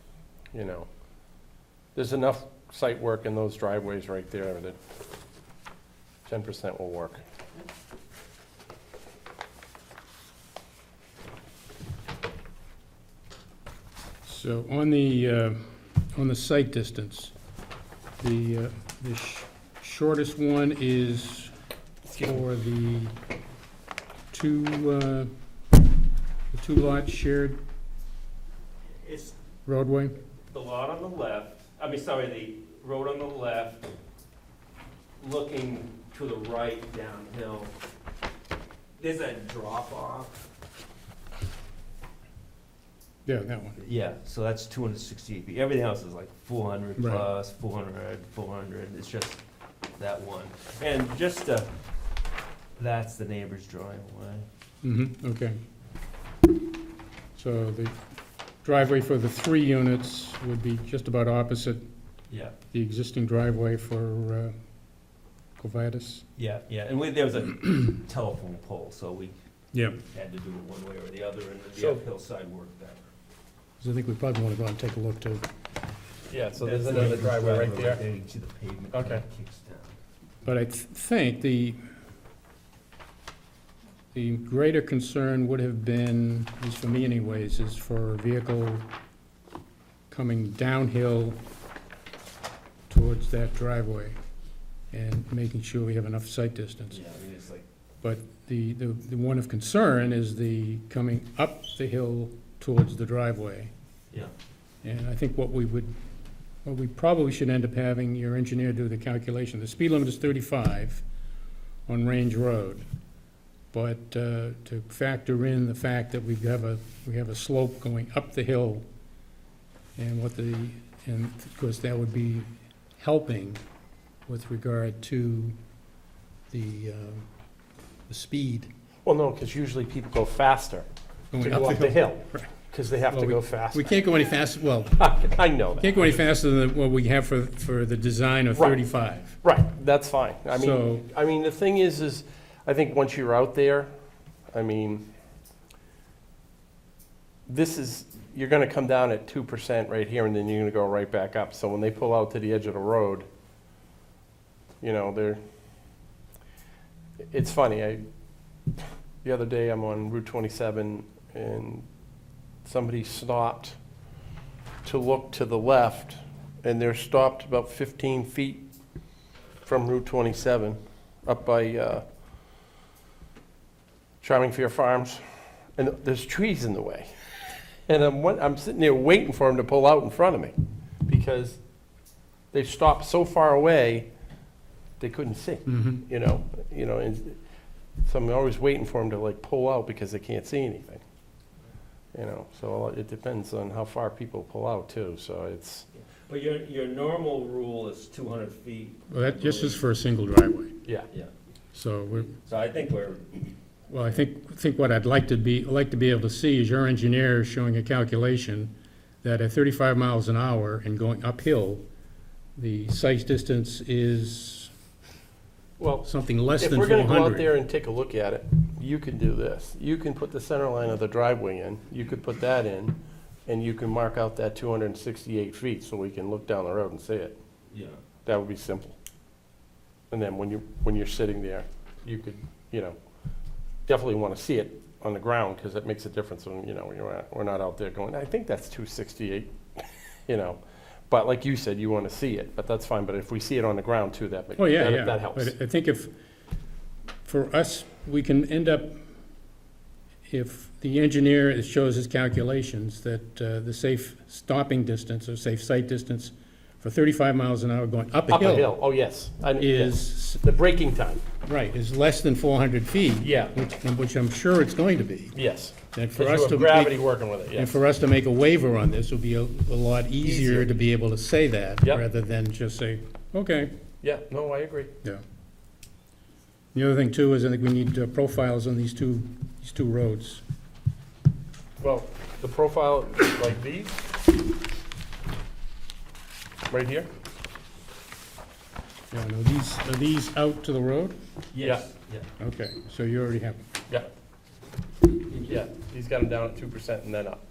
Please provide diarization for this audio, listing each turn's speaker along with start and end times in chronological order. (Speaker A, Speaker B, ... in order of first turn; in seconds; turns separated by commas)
Speaker A: 0.5-0.9, Speaker A: 1.9-4.8, Speaker A: 6.2-7.2, Speaker B: 14.2-17.3, Speaker B: 18.2-21.5, Speaker A: 22.1-22.3, Speaker B: 22.2-23.1, Speaker B: 24.3-25.3, Speaker B: 26.5-27.6, Speaker C: 29.0-29.3, Speaker B: 29.6-30.2, Speaker C: 30.5-33.9, Speaker C: 35.2-37.7, Speaker C: 39.0-40.4, Speaker B: 43.2-43.8, Speaker C: 43.8-49.4, Speaker B: 47.0-47.2, Speaker C: 50.0-51.7, Speaker C: 52.8-54.5, Speaker B: 54.8-55.6, Speaker B: 57.4-57.9, Speaker B: 58.6-61.8, Speaker C: 62.3-62.5, Speaker B: 62.7-64.5, Speaker B: 65.6-66.2, Speaker C: 66.4-69.3, Speaker B: 69.7-70.0, Speaker C: 70.1-73.0, Speaker A: 71.8-72.0, Speaker B: 73.8-75.5, Speaker A: 76.3-78.0, Speaker C: 76.6-80.0, Speaker B: 76.9-77.2, Speaker A: 78.9-79.2, Speaker B: 80.4-81.8, Speaker B: 84.1-88.8, Speaker B: 90.1-91.4, Speaker B: 92.9-94.1, Speaker B: 94.9-97.0, Speaker C: 96.9-97.6, Speaker B: 98.0-103.7, Speaker B: 104.8-105.9, Speaker B: 106.6-111.0, Speaker B: 111.9-112.8, Speaker B: 113.7-118.8, Speaker B: 120.0-123.6, Speaker B: 124.3-125.5, Speaker B: 126.5-127.3, Speaker B: 128.1-128.7, Speaker A: 129.0-130.9, Speaker B: 131.3-132.5, Speaker A: 131.4-133.8, Speaker B: 133.1-135.1, Speaker A: 135.0-136.2, Speaker B: 135.8-139.4, Speaker A: 139.4-143.9, Speaker B: 140.5-141.0, Speaker A: 144.5-145.0, Speaker A: 147.5-153.3, Speaker A: 154.8-155.4, Speaker A: 157.3-158.0, Speaker A: 159.2-161.8, Speaker A: 162.6-163.8, Speaker A: 164.8-168.6, Speaker A: 169.6-172.0, Speaker A: 174.2-175.2, Speaker A: 175.8-177.1, Speaker A: 177.8-180.5, Speaker A: 181.1-181.6, Speaker A: 182.5-184.1, Speaker A: 185.0-187.4, Speaker B: 185.7-186.0, Speaker A: 188.0-191.0, Speaker A: 192.1-195.9, Speaker C: 196.2-199.8, Speaker B: 199.1-200.8, Speaker B: 201.7-202.3, Speaker C: 202.4-203.5, Speaker B: 203.9-208.7, Speaker B: 209.2-211.8, Speaker B: 212.6-214.7, Speaker A: 215.8-216.1, Speaker B: 216.0-217.5, Speaker A: 216.6-227.3, Speaker C: 227.7-228.0, Speaker A: 228.2-229.0, Speaker A: 230.1-232.9, Speaker A: 233.9-245.5, Speaker B: 244.6-246.1, Speaker B: 247.2-249.0, Speaker B: 250.3-258.7, Speaker A: 258.3-261.2, Speaker B: 259.6-260.4, Speaker B: 261.4-265.4, Speaker A: 263.2-263.5, Speaker A: 265.3-267.7, Speaker B: 265.9-267.0, Speaker B: 267.5-273.7, Speaker A: 270.2-270.7, Speaker A: 274.0-274.9, Speaker B: 276.7-280.4, Speaker A: 281.8-284.0, Speaker A: 286.7-287.1, Speaker B: 289.1-291.1, Speaker C: 291.5-292.3, Speaker B: 292.4-293.7, Speaker A: 295.4-297.4